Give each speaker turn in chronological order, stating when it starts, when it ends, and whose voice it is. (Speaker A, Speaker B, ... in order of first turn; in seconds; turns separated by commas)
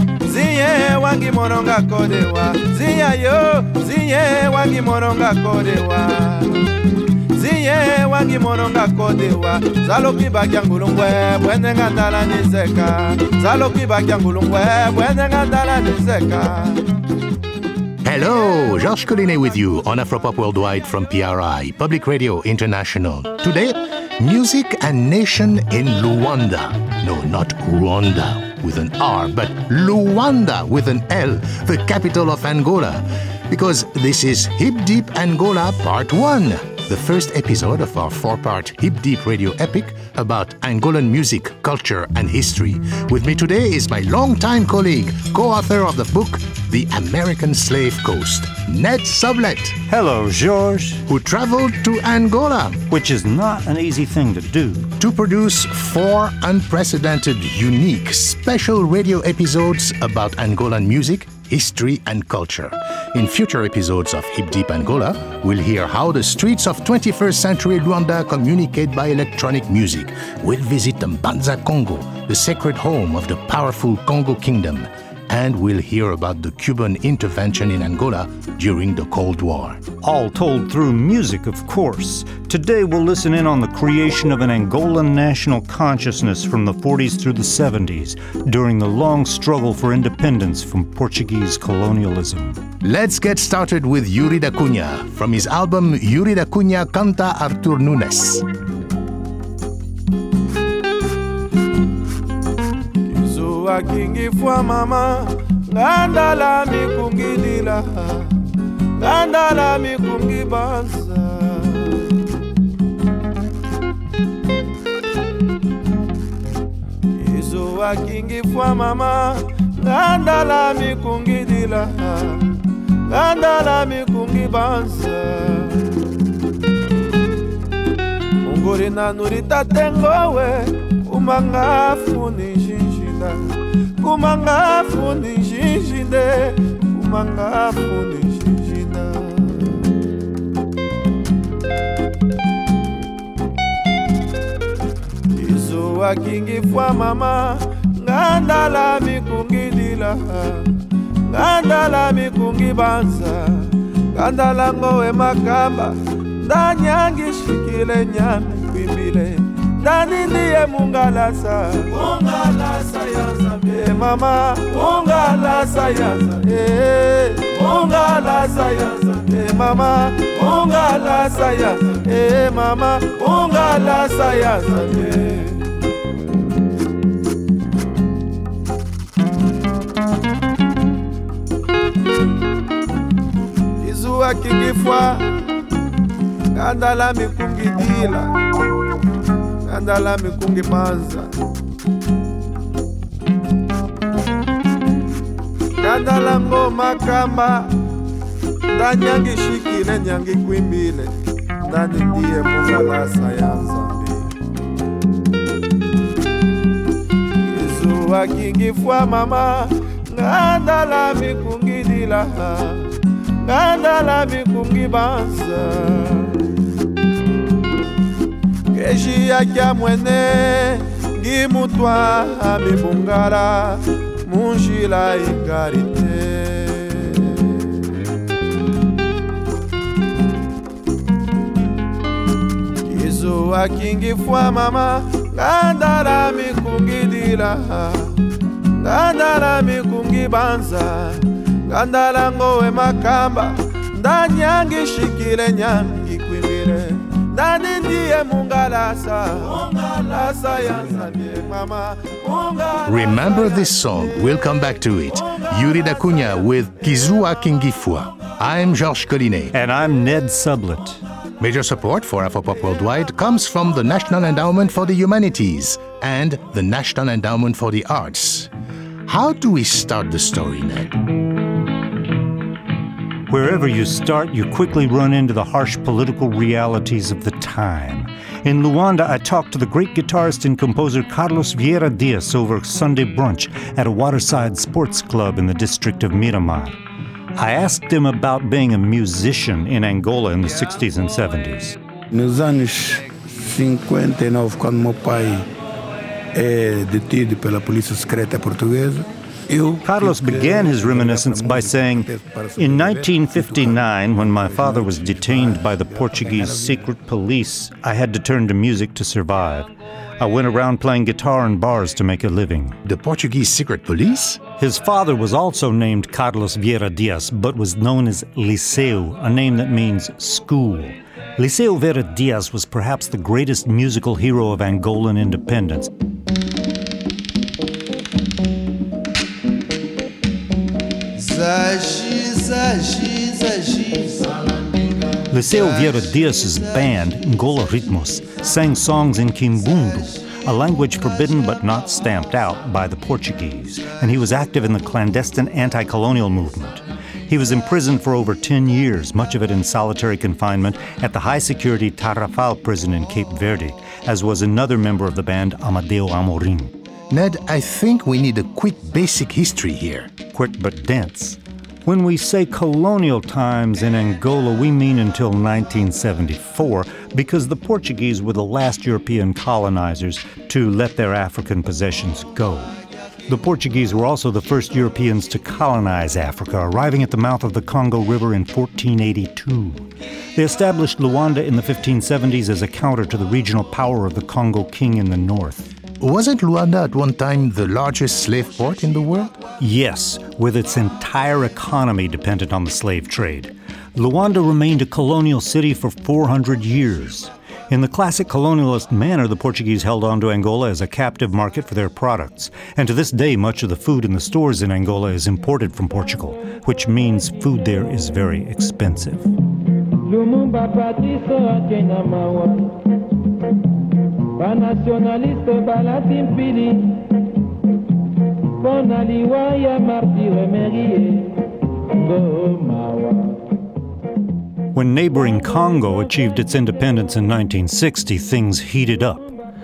Speaker A: 0.2-6.6, Speaker A: 7.3-16.9, Speaker B: 18.0-49.8, Speaker C: 49.9-51.0, Speaker B: 51.1-52.8, Speaker C: 52.9-54.9, Speaker B: 55.0-79.8, Speaker C: 80.0-92.6, Speaker B: 92.8-98.5, Speaker A: 103.1-108.3, Speaker A: 109.0-112.1, Speaker A: 117.2-122.5, Speaker A: 123.1-125.8, Speaker A: 128.4-133.4, Speaker A: 134.0-139.7, Speaker A: 145.3-150.7, Speaker A: 151.3-175.7, Speaker A: 183.8-185.4, Speaker A: 186.5-188.3, Speaker A: 189.7-191.3, Speaker A: 195.8-197.7, Speaker A: 198.7-201.1, Speaker A: 201.7-204.3, Speaker A: 207.4-212.9, Speaker A: 213.4-216.4, Speaker A: 218.7-227.5, Speaker A: 232.9-238.2, Speaker A: 238.8-253.6, Speaker B: 252.9-259.5, Speaker C: 259.5-261.0, Speaker B: 261.4-268.5, Speaker B: 269.1-271.0, Speaker C: 273.3-286.8, Speaker C: 287.4-291.8, Speaker D: 292.1-295.5, Speaker D: 296.4-306.9, Speaker C: 299.8-312.8, Speaker B: 312.9-314.4, Speaker C: 314.6-325.9, Speaker A: 331.2-334.3, Speaker C: 335.3-356.7, Speaker B: 357.1-360.1, Speaker C: 360.3-372.7, Speaker C: 373.3-385.7, Speaker B: 386.0-389.4, Speaker C: 389.6-409.3, Speaker E: 410.1-412.7, Speaker E: 414.4-416.8, Speaker E: 418.7-421.2, Speaker E: 422.2-422.9, Speaker C: 424.7-429.3